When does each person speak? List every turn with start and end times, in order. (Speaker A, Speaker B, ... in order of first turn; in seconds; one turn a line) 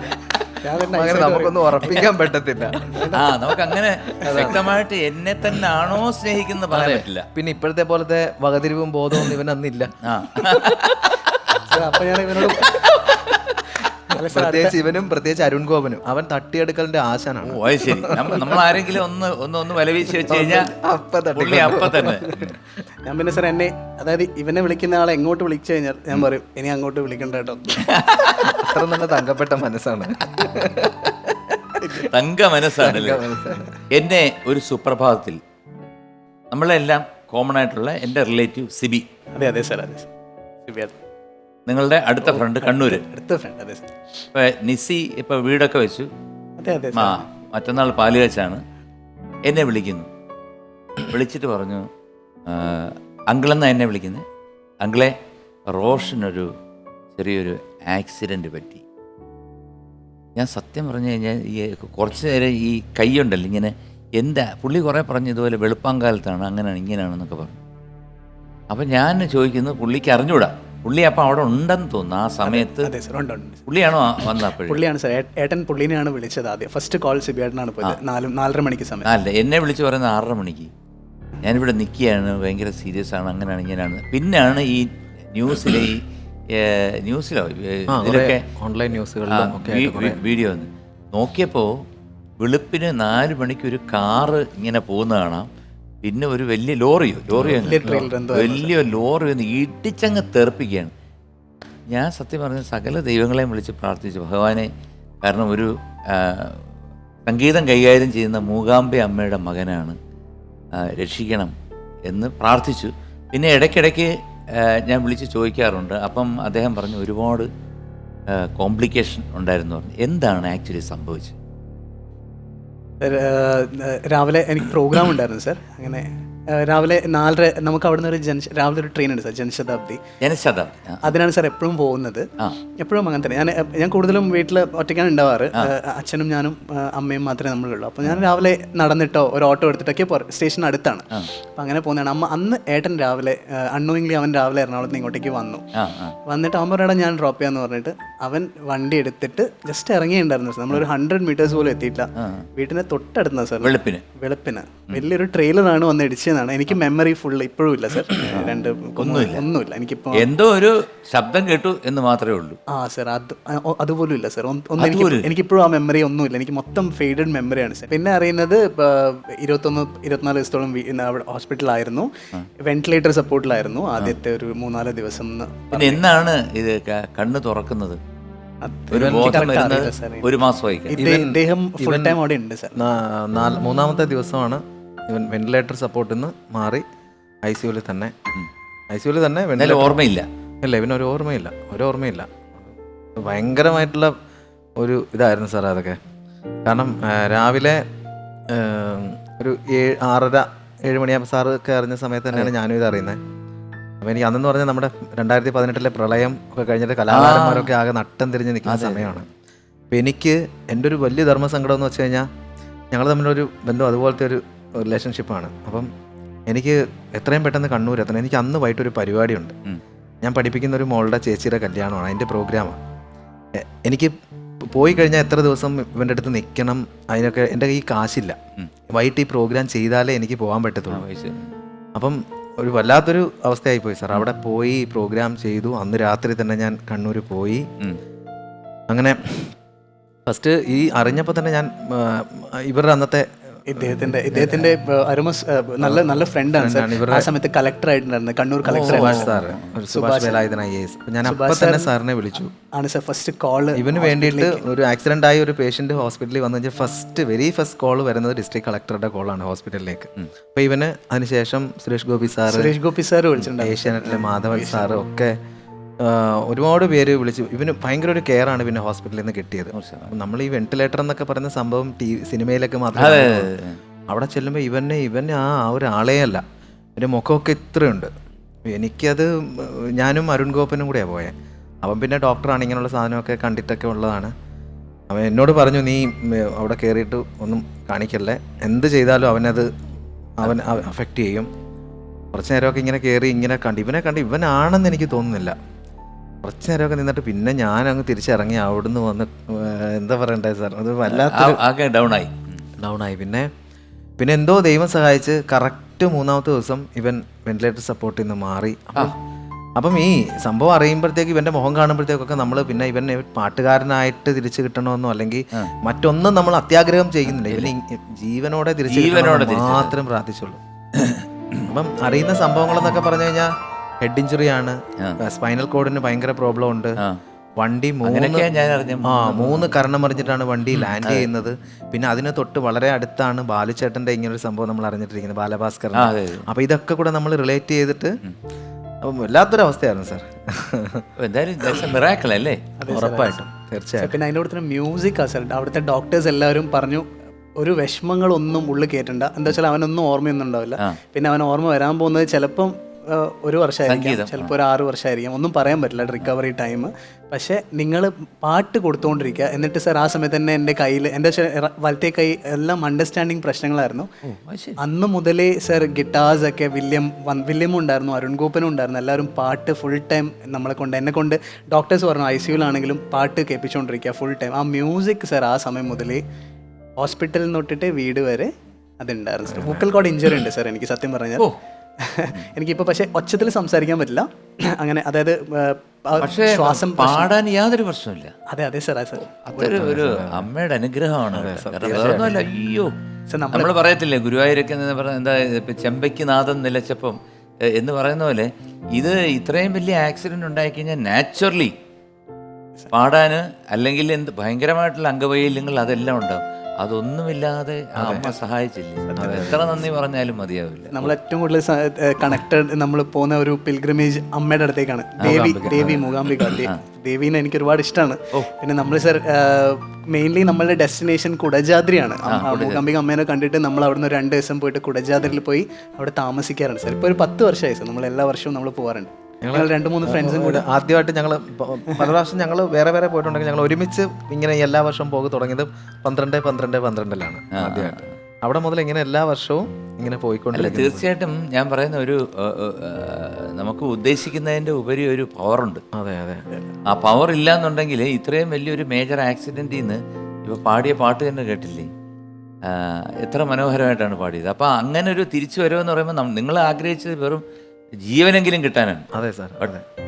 Speaker A: 0.5-2.2
Speaker B: 0.8-3.1
Speaker A: 2.9-3.3
Speaker C: 3.1-7.3
Speaker B: 4.1-4.7
Speaker B: 6.7-10.9
Speaker C: 10.0-11.4
Speaker A: 11.7-12.7
Speaker B: 12.4-18.9
Speaker C: 12.6-12.9
Speaker A: 14.1-14.8
Speaker C: 17.4-20.7
Speaker B: 20.3-22.6
Speaker C: 21.4-22.6
Speaker A: 23.1-27.9
Speaker C: 27.9-28.7
Speaker B: 28.4-31.9
Speaker A: 31.8-32.1
Speaker C: 32.0-33.3
Speaker B: 32.8-33.7
Speaker C: 33.9-35.4
Speaker C: 36.5-39.1
Speaker A: 39.4-40.1
Speaker A: 40.6-41.0
Speaker C: 41.7-43.0
Speaker A: 42.2-43.9
Speaker C: 44.3-46.1
Speaker A: 46.6-47.2
Speaker C: 46.9-48.6
Speaker C: 49.5-50.1
Speaker C: 51.0-51.9
Speaker C: 52.5-54.2
Speaker C: 54.8-55.1
Speaker C: 55.7-56.5
Speaker C: 57.2-58.9
Speaker C: 60.4-67.6
Speaker C: 68.7-72.9
Speaker A: 72.4-73.7
Speaker C: 73.7-74.8
Speaker A: 74.2-79.1
Speaker C: 79.0-80.7
Speaker C: 81.4-86.0
Speaker C: 86.5-88.4
Speaker B: 87.9-90.2
Speaker C: 89.3-91.8
Speaker C: 92.4-95.5
Speaker C: 96.0-100.9
Speaker B: 97.4-98.1
Speaker A: 97.6-98.7
Speaker C: 101.9-104.7
Speaker C: 105.2-106.6
Speaker C: 107.3-110.0
Speaker C: 110.8-111.5
Speaker C: 112.1-117.5
Speaker C: 118.4-121.4
Speaker A: 123.0-130.0
Speaker C: 130.2-131.1
Speaker A: 131.0-145.7
Speaker C: 145.8-146.2
Speaker A: 146.3-160.3
Speaker C: 152.2-152.5
Speaker C: 153.6-154.1
Speaker C: 158.3-159.5
Speaker C: 160.1-162.6
Speaker A: 162.7-172.1
Speaker C: 164.8-165.3
Speaker A: 172.6-176.0
Speaker C: 175.7-178.0
Speaker A: 178.6-180.3
Speaker C: 178.9-181.0
Speaker B: 178.9-179.9
Speaker A: 180.9-182.8
Speaker B: 181.0-182.2
Speaker B: 182.8-186.8
Speaker B: 187.4-188.1
Speaker B: 188.9-190.0
Speaker C: 189.6-190.3
Speaker B: 190.6-192.4
Speaker B: 193.2-194.1
Speaker B: 194.8-196.0
Speaker B: 196.7-197.8
Speaker B: 198.5-203.2
Speaker B: 204.0-209.3
Speaker C: 207.1-207.7
Speaker C: 208.7-209.2
Speaker B: 209.9-212.3
Speaker B: 212.9-215.9
Speaker B: 216.5-219.5
Speaker B: 220.2-222.8
Speaker B: 223.6-224.1
Speaker B: 224.7-228.4
Speaker B: 228.9-231.0
Speaker C: 230.9-231.6
Speaker B: 231.9-237.7
Speaker B: 238.9-239.5
Speaker B: 240.3-244.7
Speaker A: 243.7-249.4
Speaker B: 245.8-247.3
Speaker C: 248.6-249.8
Speaker B: 248.8-252.5
Speaker A: 249.9-250.4
Speaker A: 251.2-251.9
Speaker A: 252.7-254.6
Speaker B: 253.8-262.8
Speaker A: 262.5-264.9
Speaker B: 263.4-265.4
Speaker B: 266.0-273.5
Speaker C: 269.7-270.1
Speaker C: 272.9-273.8
Speaker B: 274.1-276.4
Speaker B: 277.0-278.1
Speaker B: 278.6-284.3
Speaker B: 285.1-289.7
Speaker B: 290.4-291.5
Speaker B: 292.3-295.6
Speaker B: 296.4-301.6
Speaker C: 301.1-302.6
Speaker B: 302.8-303.5
Speaker B: 304.2-309.1
Speaker B: 309.8-320.6
Speaker C: 317.3-317.7
Speaker C: 318.9-319.9
Speaker C: 321.0-321.7
Speaker B: 321.7-327.0
Speaker B: 327.6-328.5
Speaker C: 328.0-329.7
Speaker B: 329.1-338.2
Speaker C: 330.8-331.3
Speaker C: 335.9-336.4
Speaker B: 339.0-341.1
Speaker C: 341.2-342.6
Speaker B: 341.6-341.9
Speaker A: 342.8-343.4
Speaker B: 342.9-344.2
Speaker A: 344.0-347.1
Speaker A: 347.6-364.1
Speaker C: 353.9-354.5
Speaker C: 364.2-364.8
Speaker A: 364.8-376.2
Speaker A: 377.0-381.5
Speaker B: 379.5-379.9
Speaker A: 382.0-387.3
Speaker C: 386.2-388.3
Speaker A: 388.5-389.9
Speaker C: 389.2-392.9
Speaker B: 389.8-390.5
Speaker B: 391.3-392.4
Speaker A: 393.3-393.7
Speaker C: 393.5-397.2
Speaker C: 397.7-401.7
Speaker C: 402.9-411.1
Speaker B: 408.0-408.3
Speaker A: 409.1-409.5
Speaker B: 409.2-409.8
Speaker A: 410.9-430.6
Speaker C: 415.2-416.8
Speaker B: 415.2-416.0
Speaker C: 422.2-422.9
Speaker B: 429.4-441.1
Speaker C: 437.5-438.1
Speaker C: 440.5-445.8
Speaker B: 445.9-446.5
Speaker C: 446.9-451.9
Speaker C: 452.6-457.4
Speaker C: 458.1-459.1
Speaker B: 459.1-459.9